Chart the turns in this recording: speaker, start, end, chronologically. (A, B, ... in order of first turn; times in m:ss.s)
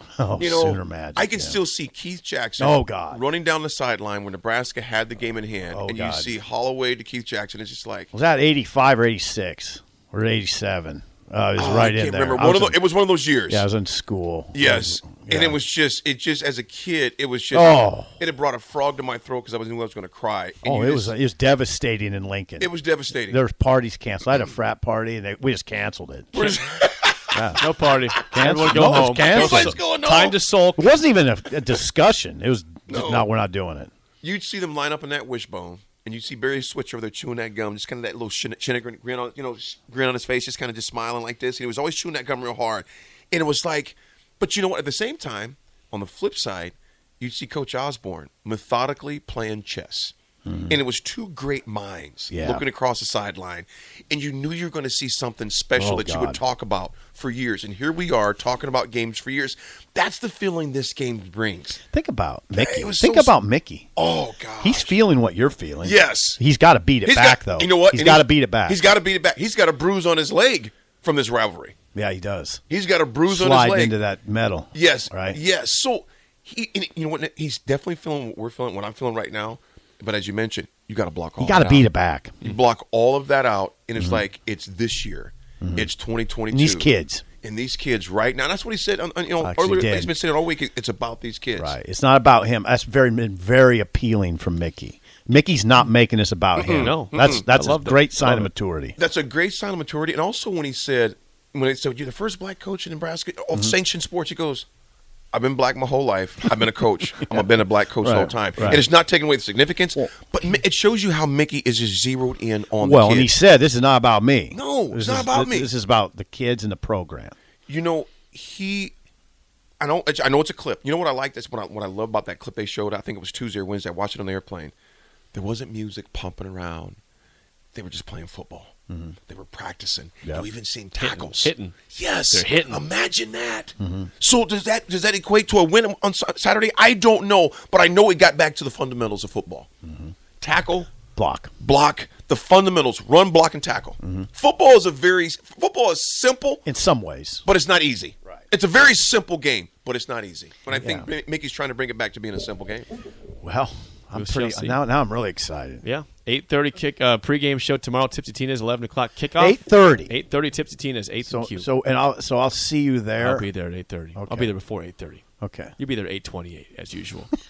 0:00.2-0:01.6 A
0:00.4-0:08.1 B
0:02.6-0:03.2 A
0:05.7-0:06.4 A
0:08.1-0:12.8 A
0:11.6-0:13.6 B
0:13.5-0:15.6 A
0:14.5-0:21.1 B
0:17.5-0:18.2 A
0:20.6-0:22.7 A
0:22.6-0:23.4 B
0:23.2-0:26.5 A
0:26.3-0:27.4 B
0:27.3-0:27.6 A
0:27.6-0:30.9 C
0:28.3-0:29.8 A
0:28.7-0:30.4 B
0:30.8-0:33.9 A
0:32.9-0:33.3 B
0:34.2-0:50.1 B
0:50.4-0:50.8 A
0:50.7-1:01.8 B
0:52.3-0:52.6 A
0:55.8-0:56.4 A
1:01.9-1:03.9 A
1:02.5-1:03.3 B
1:03.9-1:04.9 B
1:04.6-1:08.8 A
1:05.8-1:06.4 B
1:07.0-1:11.7 B
1:11.9-1:12.6 A
1:12.7-1:14.0 B
1:13.3-1:15.4 A
1:14.7-1:21.9 B
1:21.4-1:22.5 A
1:22.4-1:26.9 B
1:25.6-1:25.9 A
1:26.5-1:27.2 A
1:27.4-1:31.8 B
1:29.4-1:30.1 A
1:31.6-1:39.0 A
1:36.6-1:37.4 B
1:36.6-1:38.5 C
1:39.0-1:44.7 B
1:45.3-1:53.3 B
1:48.0-1:48.8 A
1:52.8-1:57.3 A
1:54.5-1:55.7 B
1:57.7-1:58.9 B
1:59.8-2:04.7 B
2:05.3-2:07.0 B
2:07.7-2:08.7 B
2:08.9-2:09.2 A
2:09.3-2:19.7 B
2:11.0-2:11.8 C
2:12.3-2:12.8 C
2:13.8-2:14.1 A
2:19.8-2:20.1 A
2:20.4-2:20.9 B
2:21.1-2:21.5 A
2:21.6-2:26.6 B
2:24.0-2:24.3 A
2:26.6-2:27.4 A
2:27.4-2:32.9 B
2:30.7-2:31.1 A
2:33.4-2:35.8 A
2:34.1-2:34.8 C
2:35.8-2:41.7 C
2:39.4-2:40.1 A
2:41.2-2:43.5 A
2:43.2-2:45.2 C
2:44.2-2:44.5 A
2:45.4-2:45.7 A
2:45.8-2:47.3 C